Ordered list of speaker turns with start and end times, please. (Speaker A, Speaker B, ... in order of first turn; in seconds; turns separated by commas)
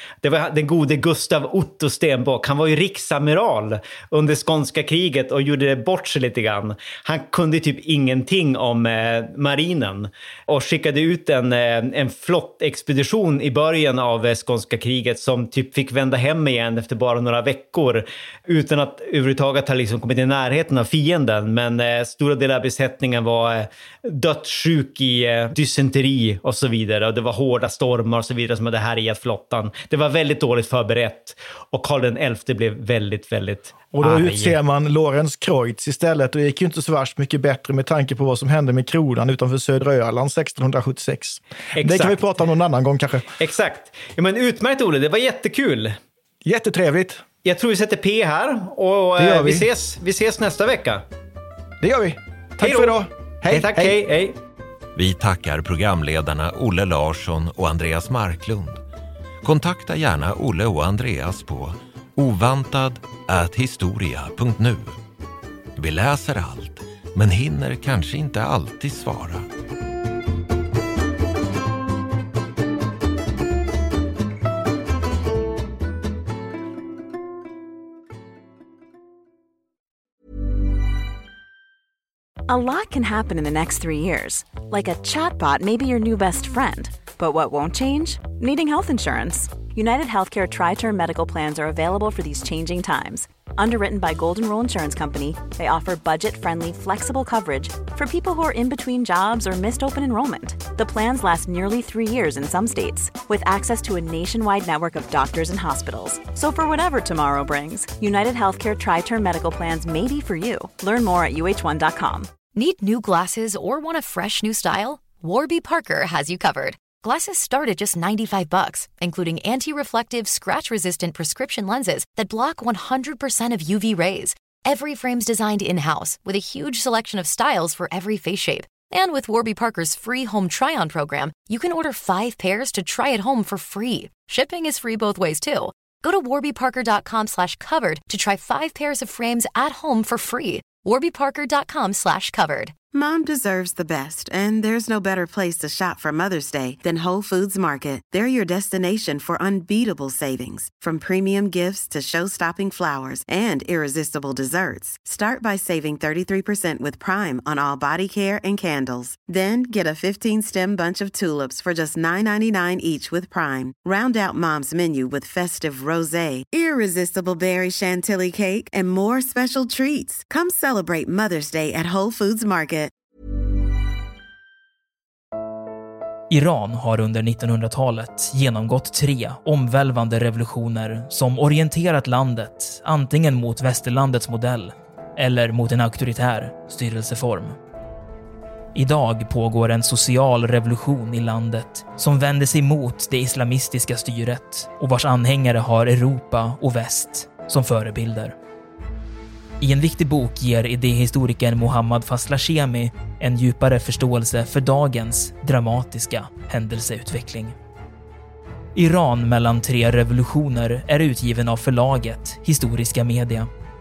Speaker A: 0.2-34.6, Speaker B: 33.9-43.3, Speaker A: 41.7-42.2, Speaker A: 43.4-46.0, Speaker B: 46.4-47.2, Speaker A: 47.4-51.0, Speaker B: 49.2-49.6, Speaker B: 51.8-54.0, Speaker A: 52.6-54.4, Speaker C: 55.0-58.8, Speaker C: 59.4-65.0, Speaker C: 65.8-69.5, Speaker D: 82.5-112.3, Speaker E: 112.5-142.7, Speaker F: 142.9-172.9, Speaker G: 176.3-187.6, Speaker G: 188.7-198.3, Speaker G: 199.6-207.5, Speaker G: 208.7-213.5